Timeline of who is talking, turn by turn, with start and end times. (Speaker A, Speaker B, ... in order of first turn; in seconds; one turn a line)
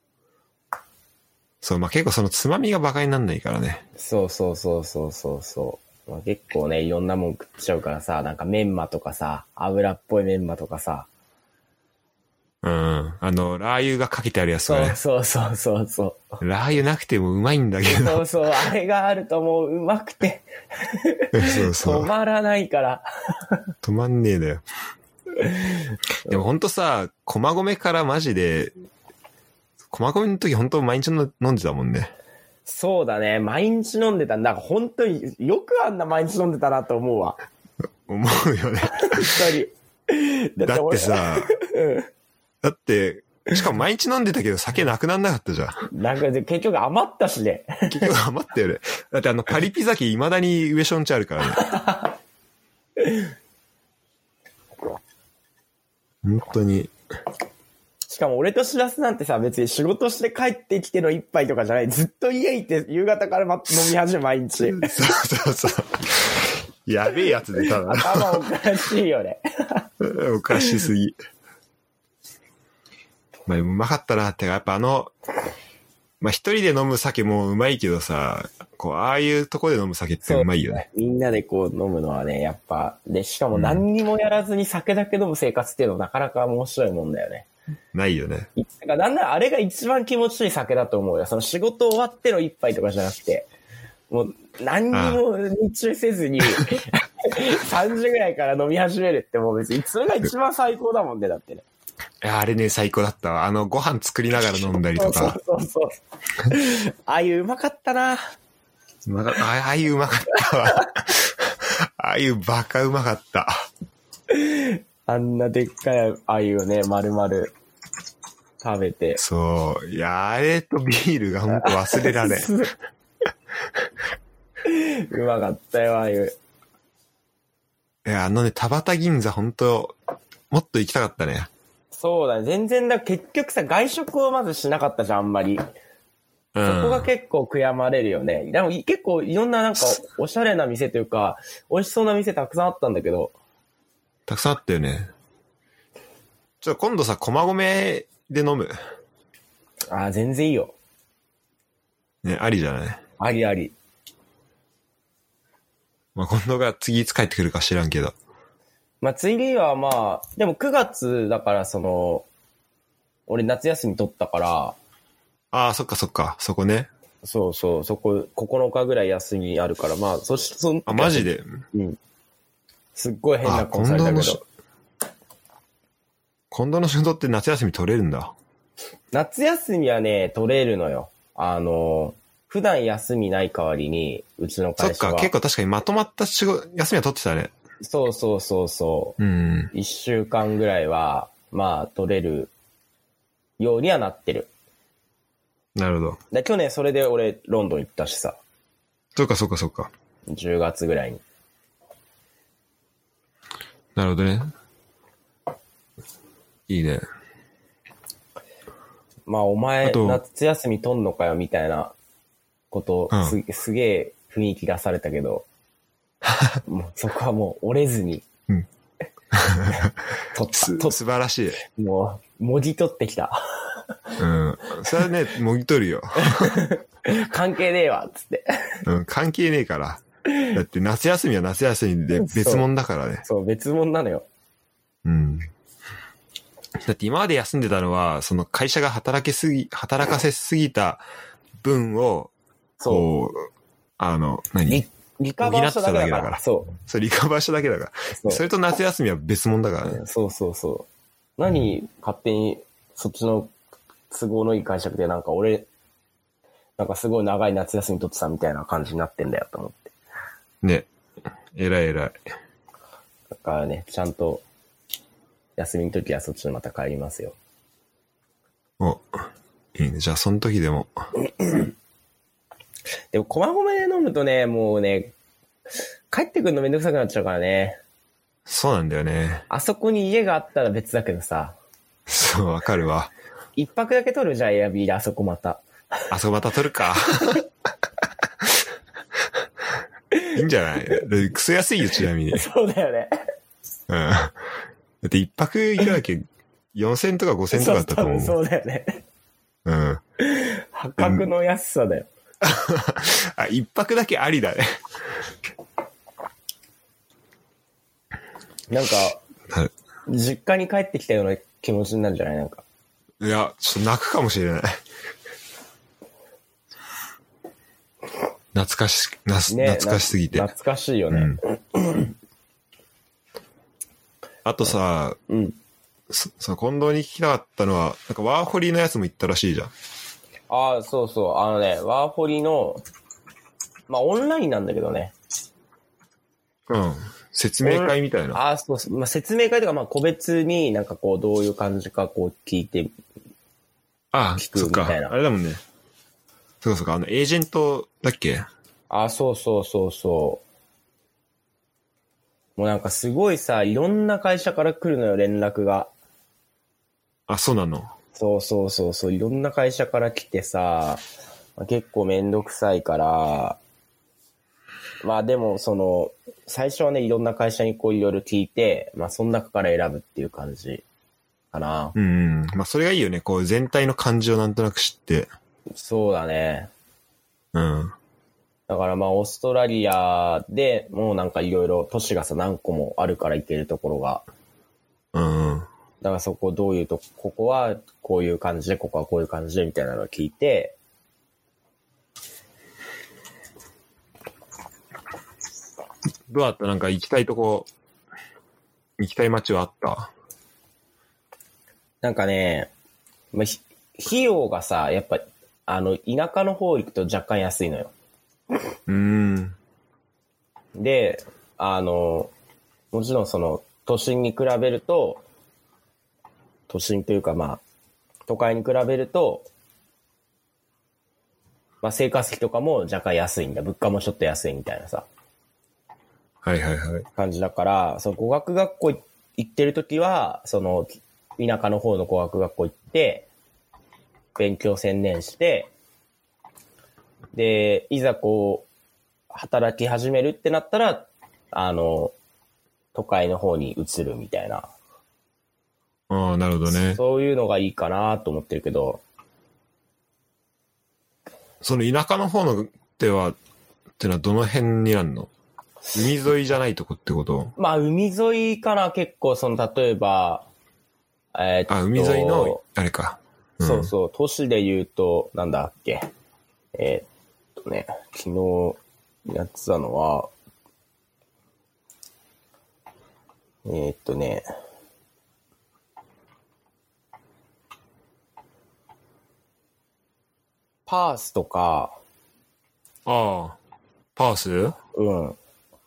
Speaker A: 1.6-3.9
Speaker B: 4.0-11.1
Speaker A: 12.6-15.0
Speaker B: 14.7-16.4
Speaker A: 16.4-18.2
Speaker B: 17.9-23.5
Speaker A: 21.3-22.1
Speaker A: 23.8-24.6
Speaker B: 25.4-25.8
Speaker A: 26.3-28.7
Speaker A: 29.9-32.1
Speaker B: 32.7-37.4
Speaker A: 38.1-39.5
Speaker B: 39.0-42.1
Speaker A: 40.6-41.5
Speaker A: 42.6-45.9
Speaker B: 45.9-48.1
Speaker A: 47.9-51.7
Speaker B: 51.6-52.0
Speaker B: 53.0-53.2
Speaker A: 56.2-56.9
Speaker B: 58.1-65.0
Speaker A: 64.7-68.5
Speaker B: 67.6-69.9
Speaker A: 70.0-71.2
Speaker B: 70.6-70.9
Speaker A: 73.5-75.1
Speaker A: 76.2-80.9
Speaker B: 80.2-87.5
Speaker A: 83.5-83.8
Speaker A: 87.9-88.5
Speaker B: 88.6-93.5
Speaker B: 94.1-101.7
Speaker A: 94.9-95.2
Speaker A: 102.2-105.4
Speaker B: 104.9-106.0
Speaker B: 106.5-108.2
Speaker A: 109.1-113.5
Speaker B: 114.3-117.5
Speaker B: 118.6-119.2
Speaker A: 119.2-122.5
Speaker B: 121.5-122.7
Speaker B: 124.6-126.4
Speaker A: 128.1-130.0
Speaker A: 130.5-131.5
Speaker B: 131.9-135.6
Speaker A: 136.5-137.1
Speaker B: 136.6-143.3
Speaker A: 144.3-145.1
Speaker A: 146.6-148.7
Speaker B: 149.9-150.7
Speaker A: 152.2-153.0
Speaker B: 153.2-153.7
Speaker A: 156.2-158.2
Speaker B: 159.0-162.3
Speaker B: 163.3-164.8
Speaker A: 165.5-166.9
Speaker B: 167.2-172.0
Speaker A: 170.9-171.5
Speaker B: 173.0-174.4
Speaker A: 173.4-174.4
Speaker A: 176.5-178.3
Speaker B: 179.1-185.3
Speaker A: 184.8-187.5
Speaker B: 187.8-189.2
Speaker A: 189.2-189.7
Speaker B: 189.7-192.5
Speaker B: 193.6-194.5
Speaker A: 195.8-196.2
Speaker B: 196.3-198.4
Speaker A: 199.2-199.9
Speaker B: 200.3-201.2
Speaker A: 203.9-204.5
Speaker A: 206.7-207.1
Speaker B: 209.3-212.0
Speaker A: 209.8-210.2
Speaker B: 212.7-215.5
Speaker A: 213.1-213.4
Speaker B: 216.7-218.3
Speaker A: 219.3-219.9
Speaker B: 219.7-221.0
Speaker A: 220.6-221.6
Speaker B: 221.6-223.7
Speaker A: 224.2-226.6
Speaker B: 226.2-228.8
Speaker A: 228.8-233.2
Speaker B: 232.2-232.6
Speaker B: 233.2-234.3
Speaker A: 235.0-235.5
Speaker A: 236.8-241.0
Speaker A: 241.6-242.3
Speaker B: 242.8-243.1
Speaker A: 242.9-243.4
Speaker A: 244.0-244.8
Speaker B: 244.7-246.8
Speaker A: 245.4-250.0
Speaker B: 248.1-248.4
Speaker B: 249.9-250.9
Speaker B: 251.4-253.5
Speaker B: 254.1-255.7
Speaker B: 256.8-259.9
Speaker A: 260.6-260.9
Speaker A: 261.5-262.2
Speaker B: 263.3-264.4
Speaker B: 265.6-267.4
Speaker A: 268.8-269.1
Speaker A: 269.8-271.0
Speaker B: 273.1-275.1
Speaker B: 276.1-277.8
Speaker A: 278.5-279.5
Speaker B: 279.5-281.6
Speaker A: 282.1-283.1
Speaker B: 283.6-285.6
Speaker A: 286.1-287.4
Speaker A: 290.3-292.4
Speaker B: 292.3-293.1
Speaker A: 293.9-294.4
Speaker A: 295.0-298.4
Speaker B: 297.5-299.0
Speaker A: 299.6-300.0
Speaker B: 300.2-302.1
Speaker A: 301.0-301.2
Speaker A: 302.4-304.7
Speaker B: 308.7-309.2
Speaker B: 310.1-312.6
Speaker A: 313.2-314.8
Speaker A: 318.5-320.5
Speaker B: 319.5-322.1
Speaker A: 321.1-321.4
Speaker A: 324.4-325.2
Speaker B: 325.3-325.6
Speaker A: 326.1-329.7
Speaker B: 330.5-332.8
Speaker B: 333.9-335.1
Speaker A: 336.7-338.4
Speaker B: 337.6-342.9
Speaker A: 344.1-345.6
Speaker B: 344.4-345.1
Speaker A: 346.6-348.5
Speaker B: 348.9-350.4
Speaker B: 352.6-355.9
Speaker A: 357.3-357.9
Speaker B: 358.1-361.0
Speaker B: 361.6-363.6
Speaker B: 365.0-370.8
Speaker B: 371.5-371.9
Speaker A: 372.0-375.3
Speaker B: 375.8-376.7
Speaker A: 377.5-377.9
Speaker B: 378.7-384.2
Speaker A: 385.1-385.7
Speaker B: 386.0-390.8
Speaker A: 396.3-397.7
Speaker A: 399.0-400.1
Speaker B: 402.0-402.7
Speaker B: 403.3-407.9
Speaker A: 408.9-409.6
Speaker B: 410.8-412.3
Speaker B: 412.9-415.2
Speaker B: 416.7-417.6
Speaker B: 418.3-419.5
Speaker B: 421.8-425.1
Speaker A: 426.4-427.1
Speaker B: 427.2-433.3
Speaker B: 434.4-435.7
Speaker B: 437.3-438.7
Speaker B: 439.3-442.1
Speaker B: 442.9-444.7
Speaker A: 446.1-447.0
Speaker B: 446.8-449.0
Speaker A: 451.6-453.4
Speaker A: 454.0-455.3
Speaker A: 455.9-457.5
Speaker B: 457.6-460.5
Speaker B: 461.3-462.6
Speaker A: 461.7-463.9
Speaker B: 463.6-466.1
Speaker B: 466.8-470.3
Speaker B: 473.6-474.4
Speaker B: 480.9-482.0
Speaker A: 483.1-483.6
Speaker A: 484.2-484.8
Speaker B: 484.9-485.4